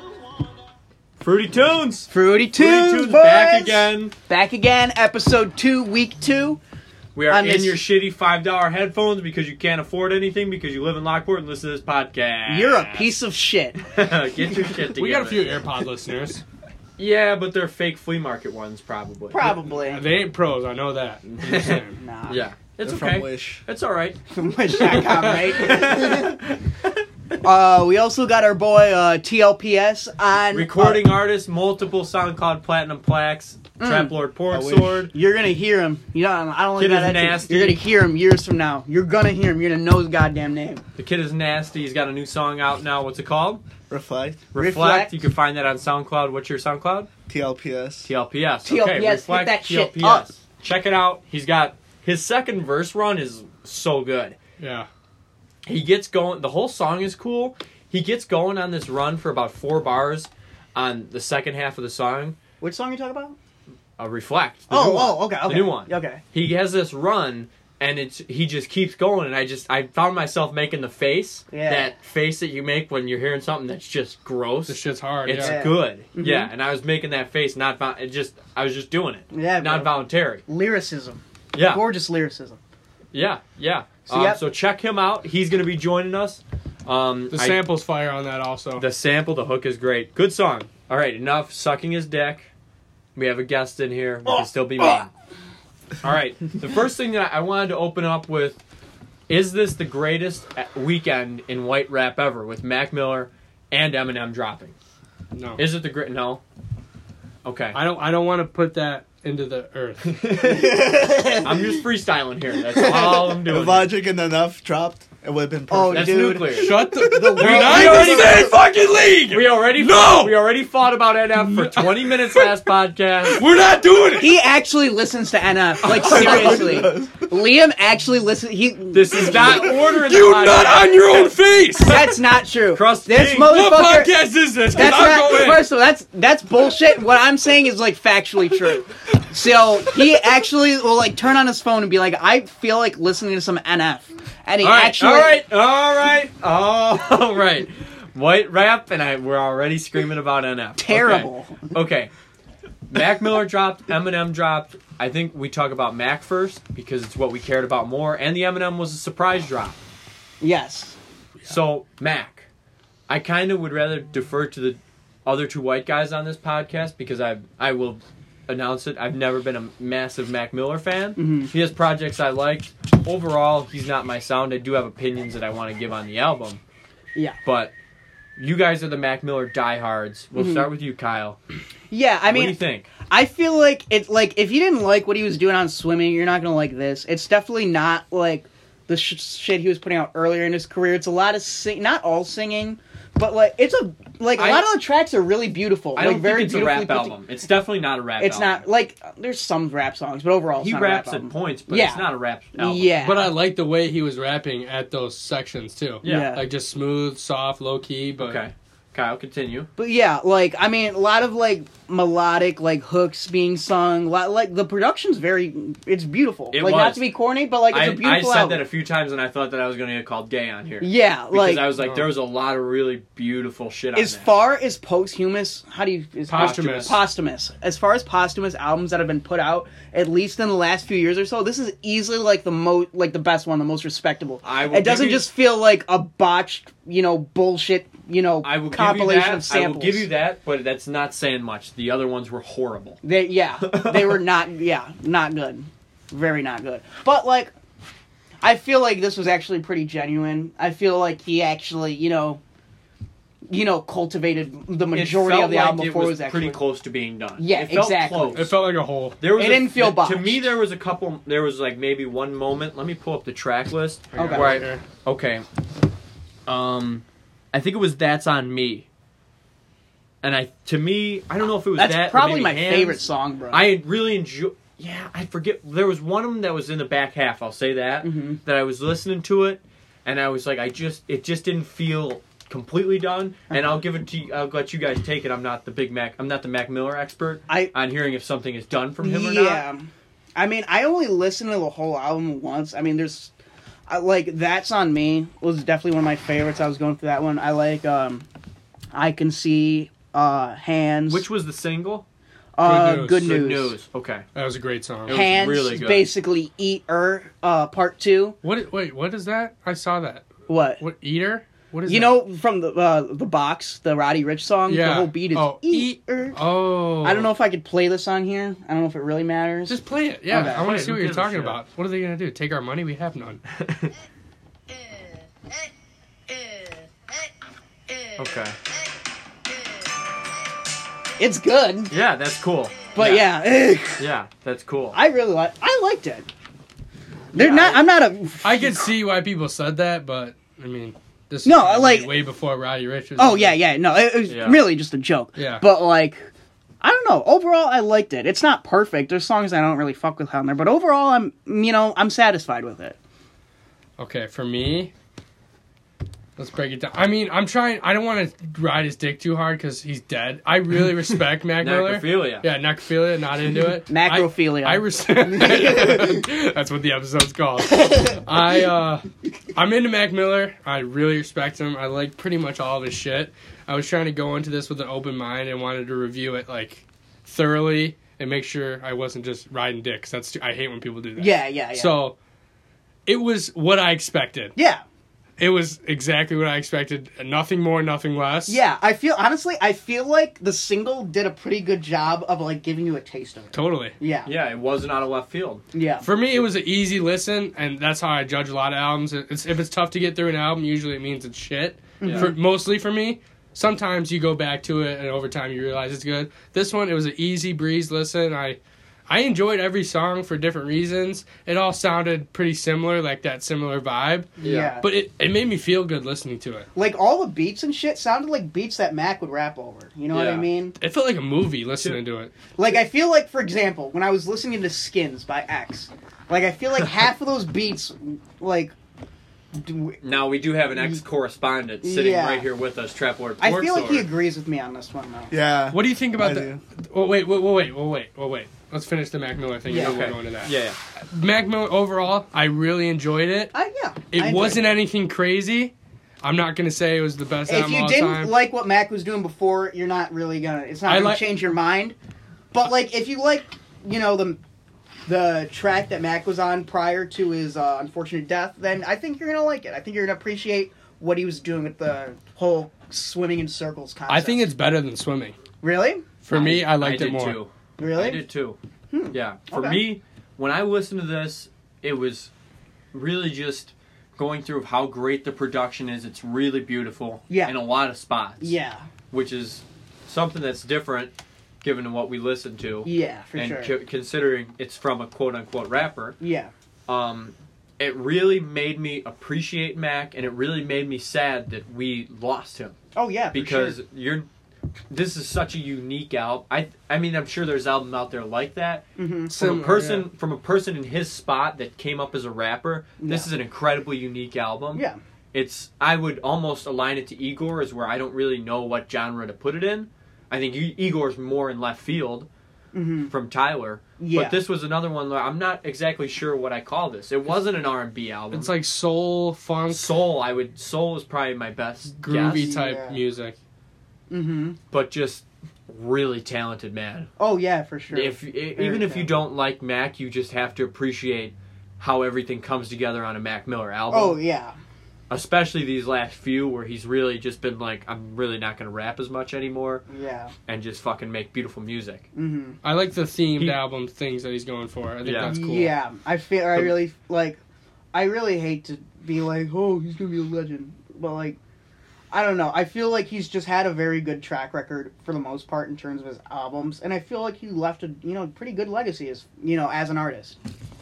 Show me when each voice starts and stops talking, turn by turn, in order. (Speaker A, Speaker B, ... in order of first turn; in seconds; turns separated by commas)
Speaker A: 1.2-4.1, Speaker B: 2.1-6.6, Speaker A: 7.1-13.1, Speaker B: 7.3-7.8, Speaker B: 12.5-13.8, Speaker A: 13.8-15.6, Speaker C: 14.9-16.4, Speaker A: 17.0-19.5, Speaker B: 19.3-20.0, Speaker C: 19.9-22.0, Speaker A: 21.3-24.2, Speaker B: 21.9-22.4, Speaker D: 22.8-23.6, Speaker B: 24.3-26.3, Speaker A: 24.9-26.9, Speaker B: 27.4-31.0, Speaker A: 30.5-35.1, Speaker B: 33.8-34.1, Speaker D: 34.5-35.0, Speaker B: 35.1-40.8, Speaker A: 36.8-37.8, Speaker A: 41.0-43.6, Speaker D: 43.9-44.4, Speaker A: 44.5-47.1, Speaker B: 44.5-45.2, Speaker D: 47.3-48.1, Speaker A: 48.0-54.4, Speaker B: 48.6-50.3, Speaker C: 54.6-54.9, Speaker A: 55.6-62.4, Speaker B: 62.6-63.4, Speaker A: 64.0-80.4, Speaker B: 64.7-66.2, Speaker B: 71.5-71.9, Speaker C: 74.7-75.6, Speaker B: 75.3-76.5, Speaker B: 79.3-82.6, Speaker A: 81.5-81.8, Speaker A: 83.1-87.6, Speaker B: 84.1-84.4, Speaker C: 87.3-88.8, Speaker A: 88.8-92.5, Speaker A: 93.2-95.1, Speaker A: 96.0-98.6, Speaker A: 99.3-104.7, Speaker C: 105.3-105.6, Speaker A: 105.6-106.4, Speaker A: 107.4-107.8, Speaker C: 107.7-110.5, Speaker A: 110.3-110.7, Speaker B: 110.4-111.7, Speaker A: 111.4-113.9, Speaker D: 113.3-118.5, Speaker B: 115.7-118.5, Speaker A: 115.9-116.7, Speaker C: 116.5-120.3, Speaker A: 117.4-118.5, Speaker A: 119.3-123.5, Speaker C: 121.4-122.5, Speaker C: 123.3-124.3, Speaker B: 124.2-129.4, Speaker A: 125.8-126.7, Speaker D: 126.0-127.2, Speaker A: 128.9-131.3, Speaker C: 129.3-132.1, Speaker B: 131.9-134.2, Speaker A: 132.7-133.5, Speaker C: 133.4-135.7, Speaker B: 134.7-145.4, Speaker A: 144.6-152.1, Speaker B: 150.8-151.7, Speaker A: 152.9-159.8, Speaker B: 160.4-160.9, Speaker A: 161.4-162.5, Speaker A: 163.1-176.6, Speaker B: 171.2-171.5, Speaker A: 177.4-177.7, Speaker A: 178.4-181.4, Speaker B: 180.3-180.7, Speaker B: 181.9-197.2, Speaker A: 182.3-182.9, Speaker A: 194.4-194.7, Speaker A: 195.9-198.6, Speaker B: 198.2-203.3, Speaker A: 200.6-203.1, Speaker C: 203.0-208.4, Speaker A: 206.0-206.3, Speaker B: 206.0-206.4, Speaker A: 208.2-209.7, Speaker B: 209.8-218.6, Speaker A: 216.5-217.1, Speaker A: 217.7-224.3, Speaker B: 220.8-221.8, Speaker C: 221.8-222.1, Speaker B: 223.9-240.1, Speaker C: 226.3-227.0, Speaker A: 226.4-226.7, Speaker A: 234.4-235.3, Speaker A: 238.4-243.0, Speaker B: 243.0-247.5, Speaker A: 243.6-244.2, Speaker B: 248.4-252.4, Speaker B: 253.5-256.6, Speaker A: 254.9-258.6, Speaker B: 257.4-258.5, Speaker C: 258.3-259.2, Speaker A: 259.2-265.4, Speaker B: 259.3-260.4, Speaker C: 264.1-264.8, Speaker B: 264.1-264.6, Speaker A: 266.5-268.9, Speaker A: 270.2-289.6, Speaker B: 271.8-273.7, Speaker B: 278.0-278.4, Speaker B: 283.5-283.8, Speaker B: 289.0-293.3, Speaker B: 293.9-298.3, Speaker B: 298.9-301.3, Speaker A: 301.1-302.1, Speaker B: 302.6-303.8, Speaker C: 302.6-303.3, Speaker A: 303.2-304.2, Speaker C: 304.3-305.2, Speaker A: 305.1-306.1, Speaker B: 305.1-308.4, Speaker C: 308.4-310.3, Speaker B: 310.5-310.8, Speaker C: 310.8-312.2, Speaker B: 311.9-316.4, Speaker C: 314.7-317.3, Speaker B: 317.0-319.8, Speaker C: 319.7-323.4, Speaker B: 320.3-320.7, Speaker A: 320.3-321.6, Speaker A: 323.6-323.9, Speaker A: 328.2-328.6, Speaker B: 331.2-331.9, Speaker A: 331.9-333.4, Speaker B: 332.9-334.0, Speaker A: 334.0-335.0, Speaker B: 334.9-336.3, Speaker A: 337.3-337.8, Speaker B: 337.3-338.9, Speaker C: 338.4-343.6, Speaker B: 341.4-342.1, Speaker B: 343.2-346.3, Speaker A: 344.3-344.6, Speaker C: 345.4-345.6, Speaker B: 346.8-353.0, Speaker C: 354.0-354.9, Speaker C: 356.4-382.1, Speaker A: 361.6-362.4, Speaker B: 363.9-366.2, Speaker B: 381.2-381.9, Speaker C: 383.1-384.5, Speaker B: 384.6-384.8, Speaker C: 385.4-388.6, Speaker B: 388.5-394.3, Speaker C: 393.5-393.9, Speaker A: 394.2-395.6, Speaker B: 395.7-396.0, Speaker C: 396.0-416.7, Speaker B: 402.0-402.3, Speaker A: 402.0-402.3, Speaker B: 414.4-414.8, Speaker A: 414.4-414.7, Speaker B: 416.7-420.7, Speaker A: 420.1-420.5, Speaker C: 420.8-422.3, Speaker A: 421.7-422.0, Speaker B: 422.6-428.7, Speaker B: 429.5-430.0, Speaker A: 430.0-434.1, Speaker B: 431.8-432.4, Speaker B: 433.4-435.3, Speaker D: 435.3-436.6, Speaker C: 435.7-440.5, Speaker B: 439.7-440.0, Speaker A: 439.7-440.8, Speaker C: 441.1-443.5, Speaker B: 443.5-444.6, Speaker C: 444.1-448.3, Speaker B: 447.5-451.9, Speaker C: 450.9-451.2, Speaker B: 452.5-454.4, Speaker B: 455.1-464.4, Speaker C: 464.1-465.4, Speaker B: 465.6-466.0, Speaker C: 466.2-467.4, Speaker A: 466.3-468.6, Speaker B: 467.8-468.2, Speaker B: 468.9-469.8, Speaker A: 469.1-472.3, Speaker A: 472.9-478.6, Speaker B: 477.3-477.5, Speaker B: 478.4-478.8, Speaker A: 479.1-486.2, Speaker B: 482.8-483.7, Speaker B: 486.2-486.5, Speaker A: 486.9-492.8, Speaker B: 492.9-493.8, Speaker A: 493.3-494.3, Speaker A: 494.9-512.3, Speaker B: 499.0-499.7, Speaker C: 499.3-500.1, Speaker B: 503.0-503.3, Speaker B: 512.7-513.1, Speaker A: 513.1-518.5, Speaker B: 514.0-514.4, Speaker C: 518.3-519.9, Speaker A: 519.7-522.6, Speaker C: 522.0-523.4, Speaker B: 522.3-523.0, Speaker B: 524.1-524.6, Speaker A: 524.7-527.1, Speaker B: 527.2-529.2, Speaker A: 527.9-534.2, Speaker B: 533.9-534.5, Speaker A: 535.1-539.8, Speaker B: 539.9-540.3, Speaker A: 540.5-542.0, Speaker B: 542.1-542.6, Speaker C: 542.6-545.7, Speaker A: 545.0-545.4, Speaker B: 545.2-547.4, Speaker B: 547.9-551.4, Speaker B: 552.1-560.4